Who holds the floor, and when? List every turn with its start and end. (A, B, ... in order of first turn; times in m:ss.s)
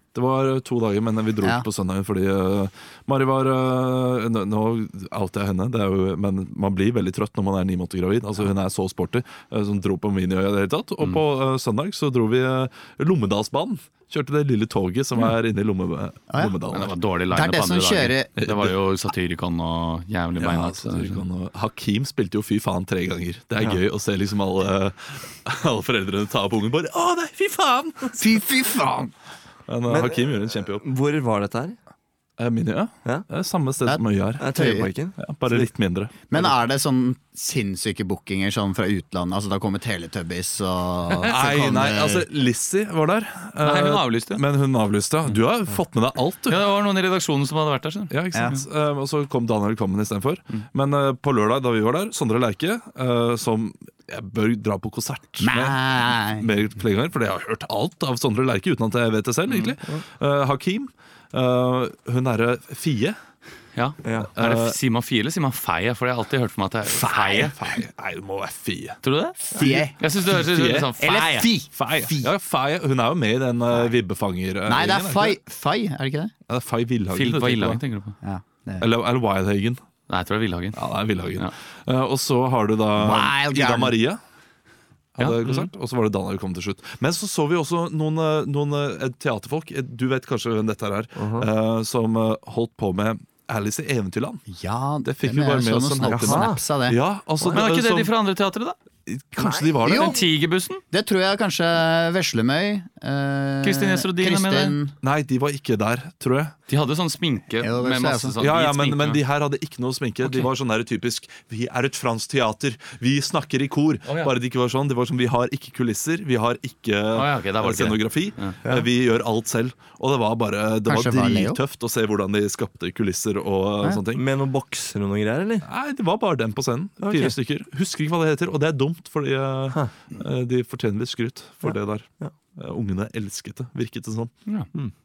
0:00.1-0:16.9 A
0:16.3-0:16.5 B
0:16.7-0:21.2 C
0:17.3-0:18.3 B
0:18.4-0:18.8 A
0:20.4-0:28.5 A
0:28.2-0:29.1 B
0:29.7-0:30.8 A
0:29.9-0:31.8 D
0:32.4-0:34.5 A
0:33.8-0:34.9 B
0:34.4-0:35.7 D
0:35.2-0:36.1 A
0:36.3-0:42.2 B
0:41.2-0:46.6 A
0:43.6-0:44.4 C
0:46.5-0:48.5 C
0:48.1-1:03.2 A
0:55.4-0:56.4 B
0:59.5-0:59.7 C
1:03.7-1:07.5 C
1:04.0-1:04.3 D
1:04.4-1:04.8 A
1:06.9-1:09.0 A
1:09.0-1:11.5 C
1:09.5-1:10.0 B
1:09.5-1:10.9 A
1:11.0-1:12.3 B
1:11.7-1:15.4 A
1:14.6-1:16.3 B
1:16.5-1:17.8 A
1:17.1-1:18.2 C
1:18.2-1:18.8 B
1:18.8-1:19.8 A
1:20.1-1:20.8 C
1:20.7-1:24.2 A
1:23.0-1:23.9 B
1:25.2-1:34.4 A
1:31.2-1:31.5 D
1:34.5-1:37.0 B
1:35.0-1:38.1 A
1:36.0-1:36.6 D
1:37.5-1:38.8 C
1:39.1-1:40.2 A
1:39.4-1:39.9 D
1:39.8-1:40.2 B
1:39.9-1:40.8 C
1:40.9-1:44.9 B
1:43.6-1:44.8 C
1:45.0-1:46.5 A
1:46.7-1:49.2 C
1:47.6-1:48.4 B
1:48.4-2:04.2 A
1:50.2-1:50.5 C
1:54.0-1:54.3 C
1:57.1-1:58.6 C
2:00.8-2:01.6 B
2:04.1-2:05.7 D
2:05.6-2:14.3 A
2:07.0-2:07.4 D
2:11.6-2:12.3 D